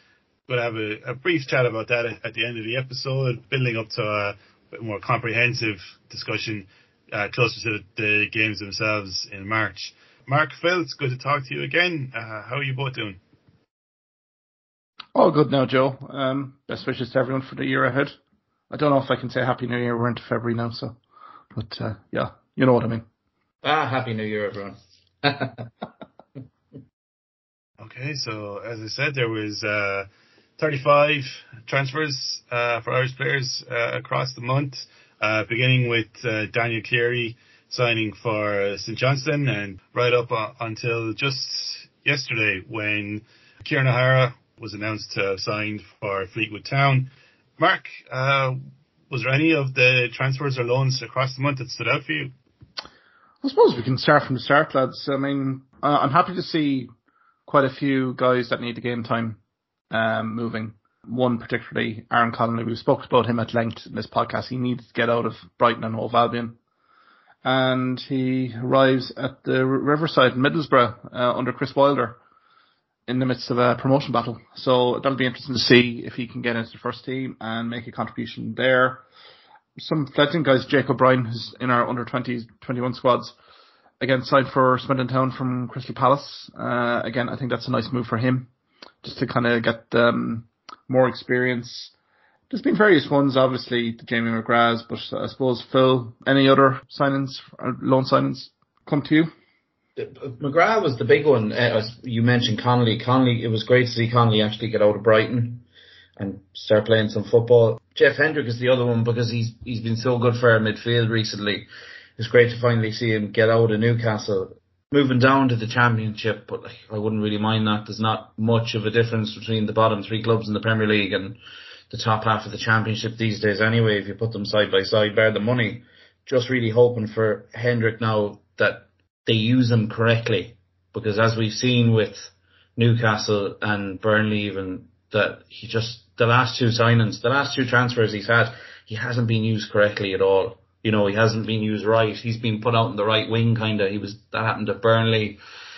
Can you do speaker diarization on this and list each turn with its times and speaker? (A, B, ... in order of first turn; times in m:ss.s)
0:00.5-0:13.2 A
0:15.1-0:18.2 B
0:18.7-0:21.0 B
0:21.5-0:23.0 B
0:23.6-0:25.7 C
0:27.8-0:30.1 A
0:30.6-0:48.6 A
0:49.1-0:52.3 A
0:53.4-0:56.9 B
0:57.5-0:59.4 B
0:59.9-1:06.6 B
1:07.4-1:12.2 B
1:13.1-1:19.0 B
1:19.8-1:23.3 B
1:24.0-1:28.5 B
1:29.0-1:31.9 B
1:32.5-1:39.3 B
1:40.0-1:45.6 C
1:46.2-2:01.4 C
2:01.9-2:25.4 C